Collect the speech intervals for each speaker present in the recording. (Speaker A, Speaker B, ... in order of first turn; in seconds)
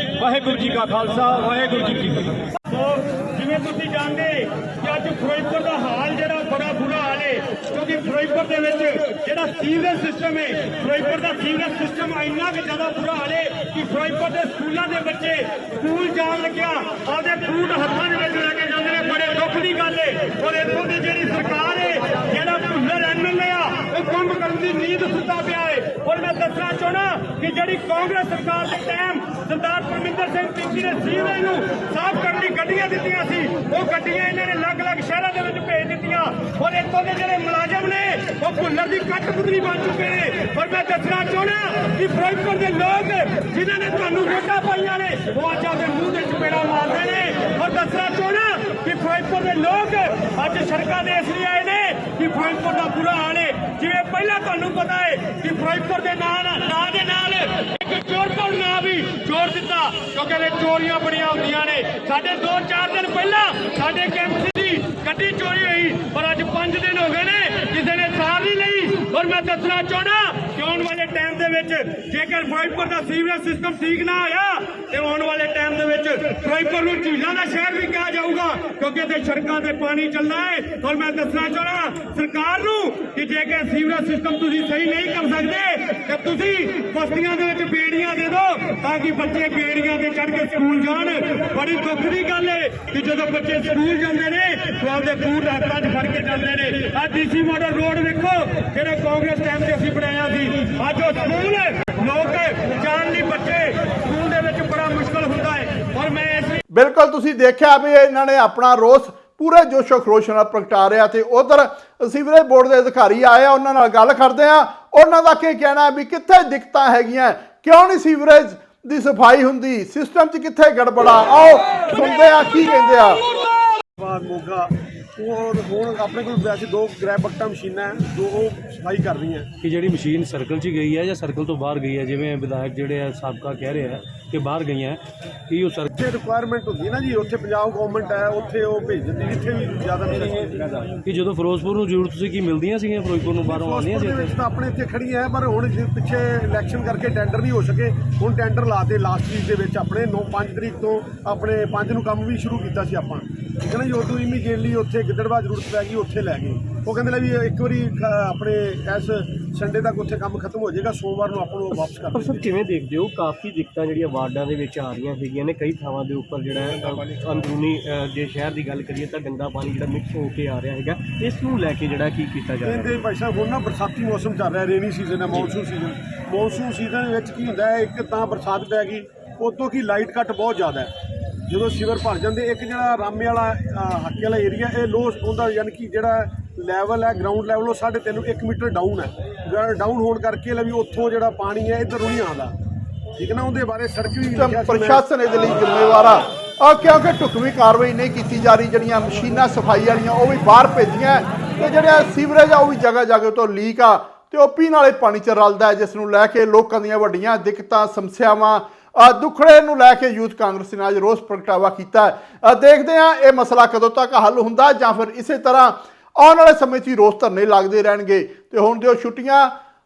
Speaker A: 0.4-106.6
Speaker B: 106.7-123.2, 194.3-219.5
Speaker C: 124.0-129.5, 135.9-140.9, 143.4-162.5, 172.6-180.9, 181.5-192.5, 193.2-195.0
Speaker D: 129.6-135.9, 141.0-144.3
Speaker E: 162.1-173.0